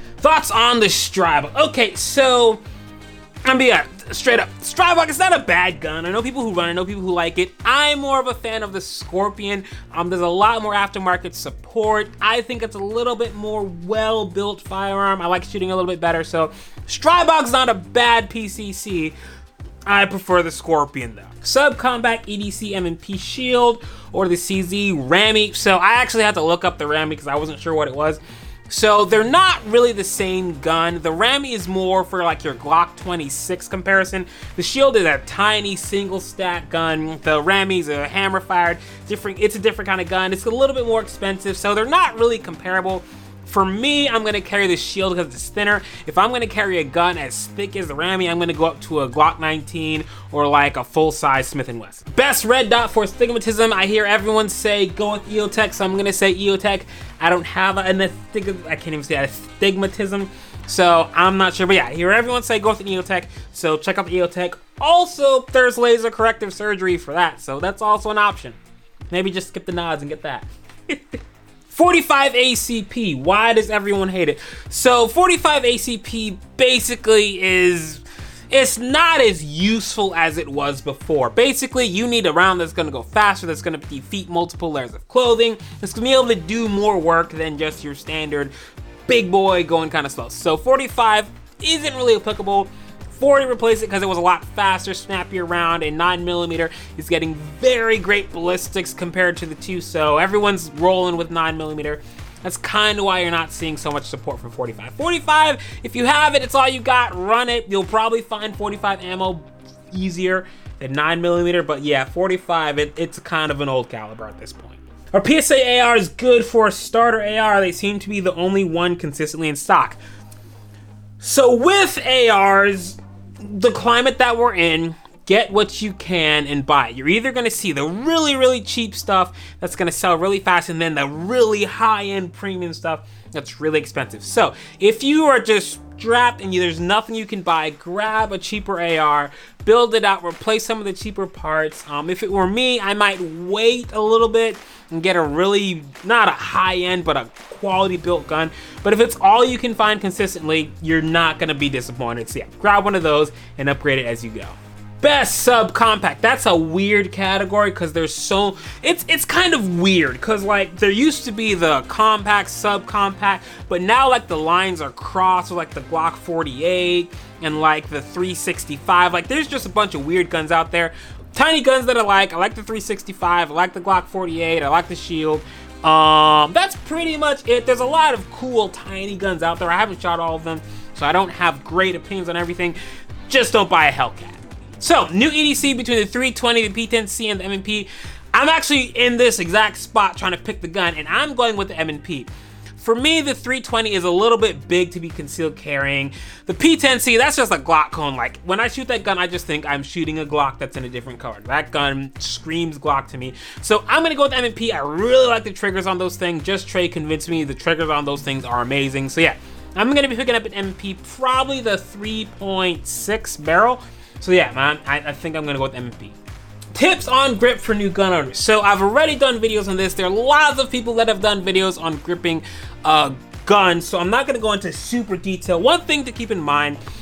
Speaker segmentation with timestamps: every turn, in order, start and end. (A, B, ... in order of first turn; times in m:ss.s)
0:00.2-0:02.6 A
0:03.4-0:19.2 A
0:19.8-1:08.6 A
1:09.1-1:11.2 A
1:11.7-1:28.5 A
1:29.1-2:00.0 A
2:01.2-3:36.2 A
3:36.7-3:46.8 A